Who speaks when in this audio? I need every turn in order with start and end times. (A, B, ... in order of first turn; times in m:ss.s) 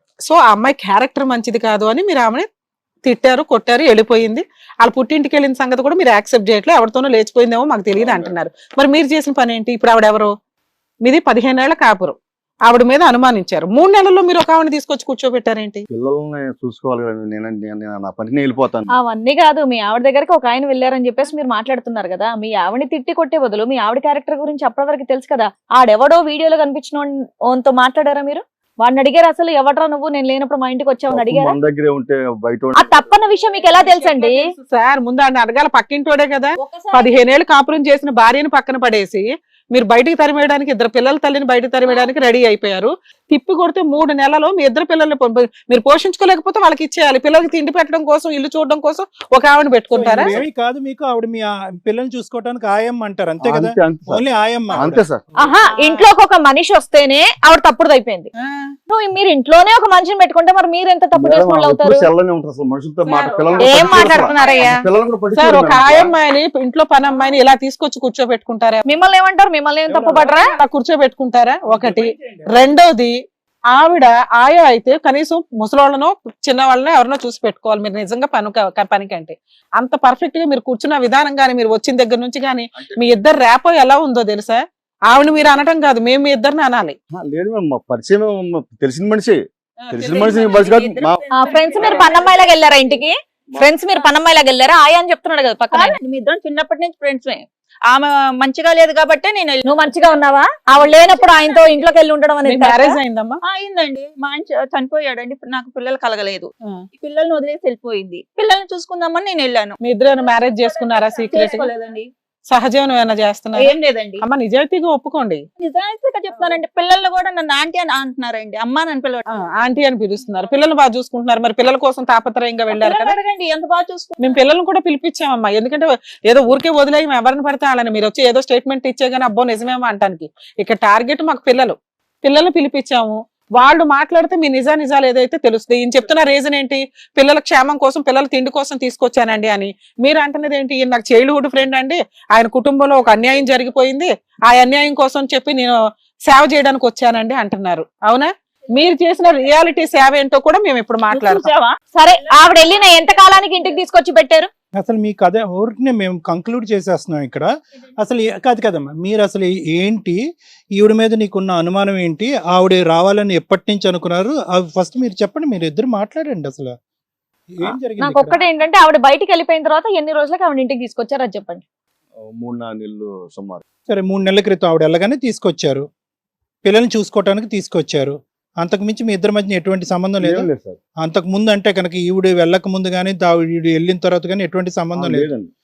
0:00.2-0:02.4 A
0:03.0-0:10.3 A
0:07.9-0:08.3 B
0:11.0-0:15.8 A
0:15.9-0:18.9 B
0:18.9-0:31.6 C
0:31.1-0:33.1 B
0:32.8-0:34.4 C
0:33.8-0:50.4 A
0:36.6-0:37.2 C
0:49.9-0:55.0 D
0:53.4-0:54.2 B
0:54.7-0:55.2 B
0:55.4-0:58.3 C
0:55.7-0:56.0 A
0:58.4-0:58.7 A
0:58.9-1:02.1 C
1:01.1-1:06.1 B
1:03.0-1:04.7 A
1:03.6-1:04.8 C
1:05.3-1:08.8 A
1:08.8-1:10.5 C
1:10.2-1:13.2 A
1:11.6-1:12.7 D
1:13.7-1:27.0 A
1:27.2-1:29.4 B
1:29.8-1:32.4 E
1:29.9-1:31.2 B
1:31.3-1:36.0 C
1:35.7-1:39.8 E
1:39.6-1:43.0 C
1:40.7-1:42.1 E
1:42.4-1:43.4 A
1:43.4-1:49.8 E
1:49.8-1:51.7 A
1:51.2-1:52.1 E
1:52.5-1:55.4 A
1:53.6-1:54.2 E
1:55.6-1:59.2 E
1:59.4-2:03.2 A
2:02.7-2:04.3 E
2:04.2-2:25.8 A
2:26.3-2:31.5 A
2:31.1-2:31.7 E
2:31.9-2:34.5 C
2:34.8-2:37.5 D
2:38.0-2:40.2 D
2:40.8-2:46.7 D
2:47.5-2:48.4 D
2:47.6-2:51.6 C
2:52.3-2:53.6 B
2:53.9-2:55.8 D
2:56.6-3:00.5 D
3:00.2-3:00.8 B
3:01.0-3:05.3 D
3:05.0-3:05.5 B